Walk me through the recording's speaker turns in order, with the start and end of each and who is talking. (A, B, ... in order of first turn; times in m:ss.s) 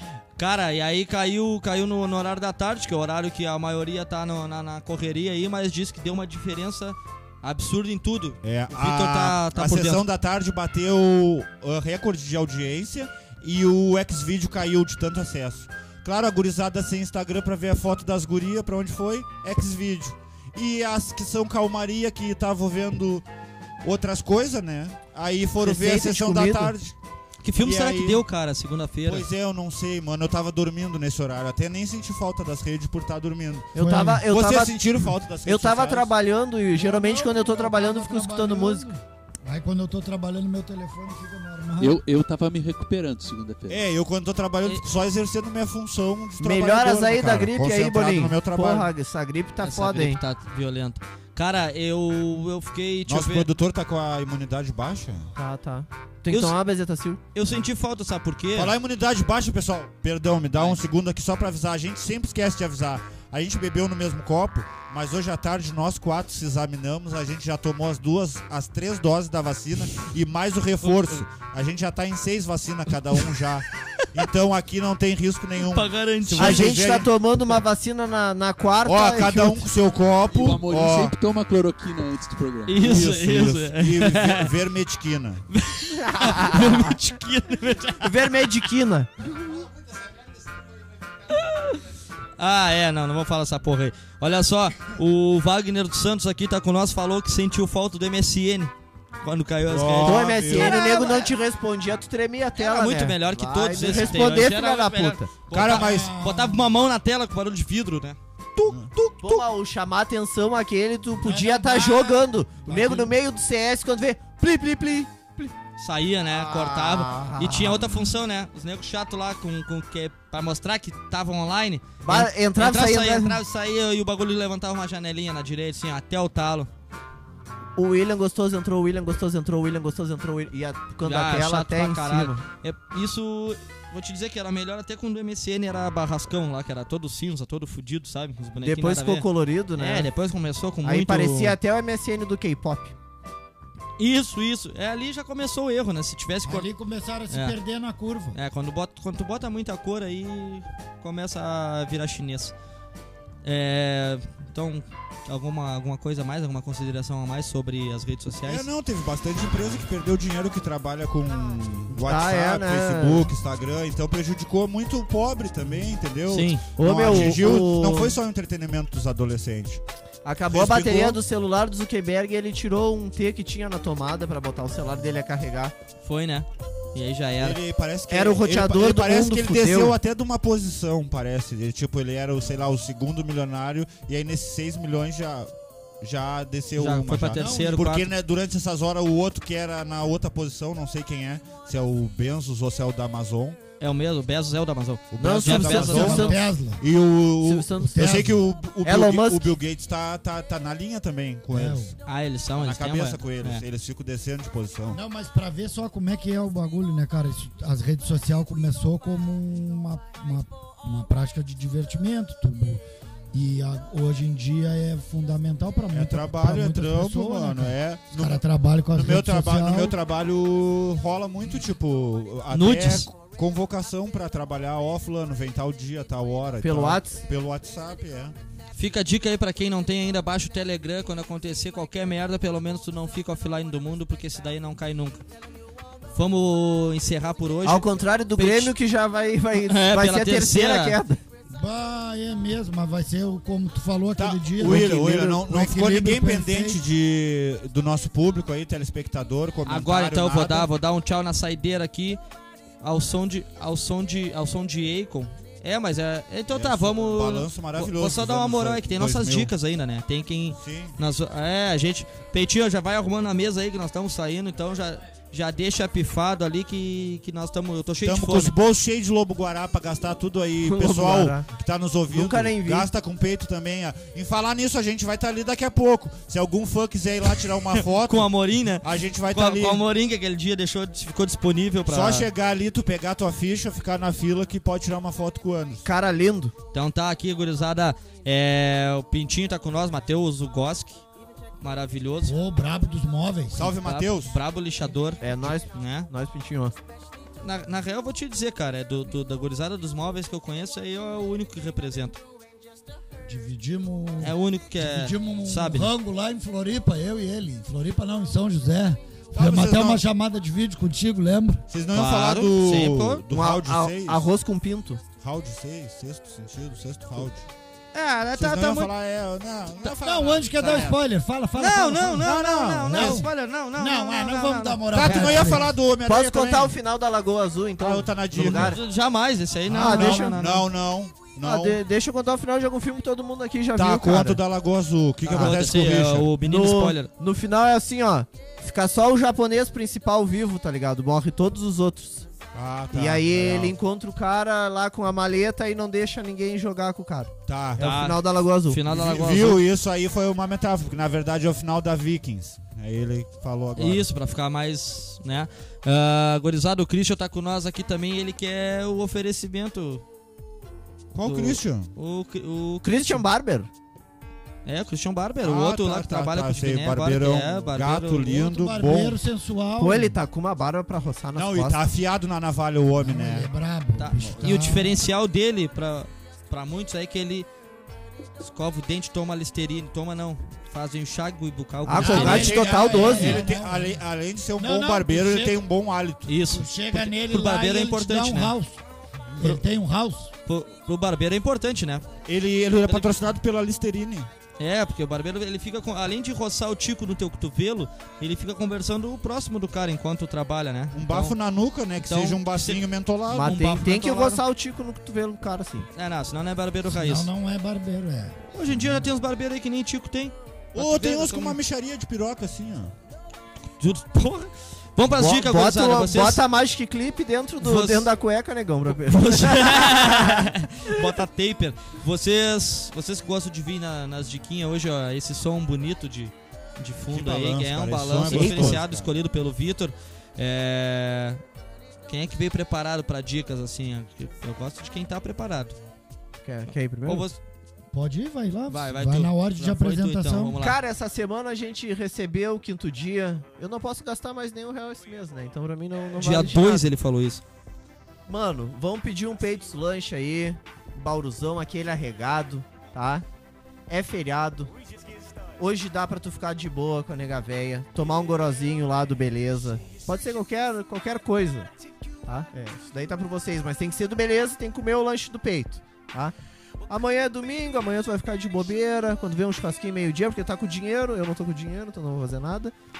0:00.4-0:10.0 A
0:08.4-0:23.2 B
0:23.8-0:27.0 B
0:25.6-0:26.7 C
0:27.4-0:29.3 A
0:27.6-0:28.2 B
0:29.0-0:36.1 B
0:33.7-0:34.2 D
0:33.7-0:34.8 C
0:35.4-0:38.9 C
0:36.7-0:42.0 D
0:41.8-0:43.8 E
0:43.7-0:48.9 B
0:46.4-0:50.2 C
0:49.6-0:53.5 A
0:53.1-0:55.3 B
0:55.4-0:57.2 C
0:56.3-0:56.5 A
0:57.3-0:58.7 A
0:58.5-1:17.1 B
1:10.8-1:11.2 A
1:15.6-1:16.8 A
1:16.4-1:19.6 C
1:18.8-1:21.1 B
1:20.3-1:23.5 E
1:22.7-1:24.5 A
1:22.8-1:25.4 B
1:25.5-1:28.7 A
1:25.9-1:27.0 C
1:28.0-1:29.1 C
1:31.3-1:31.8 A
1:32.4-1:38.7 A
1:39.2-1:41.3 A
1:39.7-1:40.8 B
1:40.0-1:45.3 C
1:42.6-1:49.4 A
1:45.5-1:46.1 B
1:45.6-1:46.6 D
1:49.2-1:55.5 C
1:51.3-1:51.8 D
1:51.5-1:52.1 A
1:52.6-1:53.1 A
1:55.8-2:06.7 A
1:56.3-1:58.1 C
2:02.0-2:03.4 C
2:07.8-2:12.4 C
2:11.0-2:21.6 A
2:18.6-2:20.1 C
2:20.8-2:22.9 C
2:24.0-2:26.7 A
2:26.4-2:28.4 D
2:28.3-2:32.5 A
2:33.4-2:38.7 A
2:38.4-2:49.8 B
2:42.0-2:43.3 C
2:46.3-2:47.2 A
2:46.8-2:48.2 C
2:50.2-2:55.7 C
2:50.4-2:51.2 B
2:56.0-2:57.6 A
2:57.4-3:13.6 B
2:58.1-2:59.9 C
3:06.8-3:08.1 A
3:13.8-3:16.4 A
3:15.1-3:21.9 B
3:15.2-3:16.4 C
3:15.8-3:16.8 D
3:17.4-3:18.0 C
3:17.8-3:18.4 D
3:18.8-3:19.5 C
3:21.5-3:21.9 D
3:22.0-3:23.6 A
3:22.6-3:25.0 B
3:24.9-3:32.8 D
3:33.3-3:39.9 D
3:35.9-3:48.3 B
3:42.5-3:43.1 A
3:46.6-3:47.2 C
3:48.8-3:55.2 A
3:56.1-3:58.7 A
3:57.6-4:01.2 C
3:59.6-4:01.0 A
4:01.5-4:06.8 D
4:04.2-4:10.7 B
4:09.7-4:12.2 A
4:12.8-4:28.5 A
4:16.5-4:19.5 B
4:20.5-4:21.0 B
4:28.0-4:39.8 B
4:30.6-4:31.4 C
4:32.1-4:32.9 C
4:37.8-4:42.3 A
4:41.8-4:45.8 B
4:45.8-4:46.5 C
4:46.7-4:51.0 A
4:51.6-4:52.3 A
4:52.2-4:53.7 D
4:53.5-4:54.4 B
4:53.8-4:56.1 A
4:55.2-4:56.8 C
4:57.4-5:02.2 A
5:03.2-5:11.6 D
5:04.2-5:05.9 A
5:09.3-5:10.0 B
5:11.7-5:14.2 B
5:11.9-5:13.2 A
5:13.3-5:15.0 C
5:15.2-5:17.5 B
5:17.9-5:18.9 A
5:18.3-5:21.0 B
5:19.8-5:22.3 D
5:20.6-5:20.9 A
5:21.6-5:25.6 A
5:22.2-5:23.2 B
5:22.9-5:25.7 D
5:24.9-5:26.7 B
5:26.0-5:28.8 C
5:27.8-5:28.8 B
5:28.4-5:30.6 A
5:29.7-5:30.4 C
5:29.7-5:31.8 B
5:31.4-5:34.4 C
5:33.7-5:36.3 B
5:35.2-5:37.1 A
5:35.3-5:42.3 C
5:42.5-5:43.7 B
5:42.9-5:48.8 C
5:47.5-5:47.9 B
5:47.8-5:49.6 A
5:48.8-5:54.1 B
5:53.8-6:00.0 A
6:01.1-6:01.9 B
6:01.2-6:03.2 A
6:02.8-6:03.7 C
6:04.6-6:08.4 A
6:05.4-6:09.2 B
6:08.3-6:10.2 D
6:09.8-6:11.8 C
6:11.3-6:13.5 B
6:13.0-6:14.9 D
6:14.0-6:17.5 A
6:18.4-6:23.4 A
6:21.8-6:23.4 C
6:22.0-6:26.4 B
6:22.0-6:24.0 D
6:24.6-6:25.6 D
6:26.3-6:28.5 A
6:26.5-6:28.8 D
6:29.4-6:30.3 D
6:30.4-6:32.1 A
6:32.2-6:34.3 B
6:32.9-6:33.2 A
6:34.6-6:41.3 A
6:40.9-6:43.6 B
6:42.0-6:44.4 A
6:43.3-6:45.9 C
6:46.0-6:47.3 A
6:46.9-6:48.4 D
6:48.5-6:51.6 A
6:50.7-6:52.9 B
6:53.8-6:56.4 A
6:55.1-7:01.0 C
6:57.6-6:58.1 A
6:58.9-7:11.4 A
7:07.1-7:09.1 B
7:08.3-7:08.7 C
7:12.1-7:15.8 A
7:16.4-7:17.3 C
7:17.0-7:17.4 A
7:17.9-7:20.6 D
7:18.7-7:20.8 A
7:20.6-7:26.9 C
7:26.2-7:27.4 A
7:28.3-7:33.2 C
7:33.9-7:34.7 C
7:35.6-7:41.7 C
7:42.2-7:46.3 C
7:46.9-7:52.7 C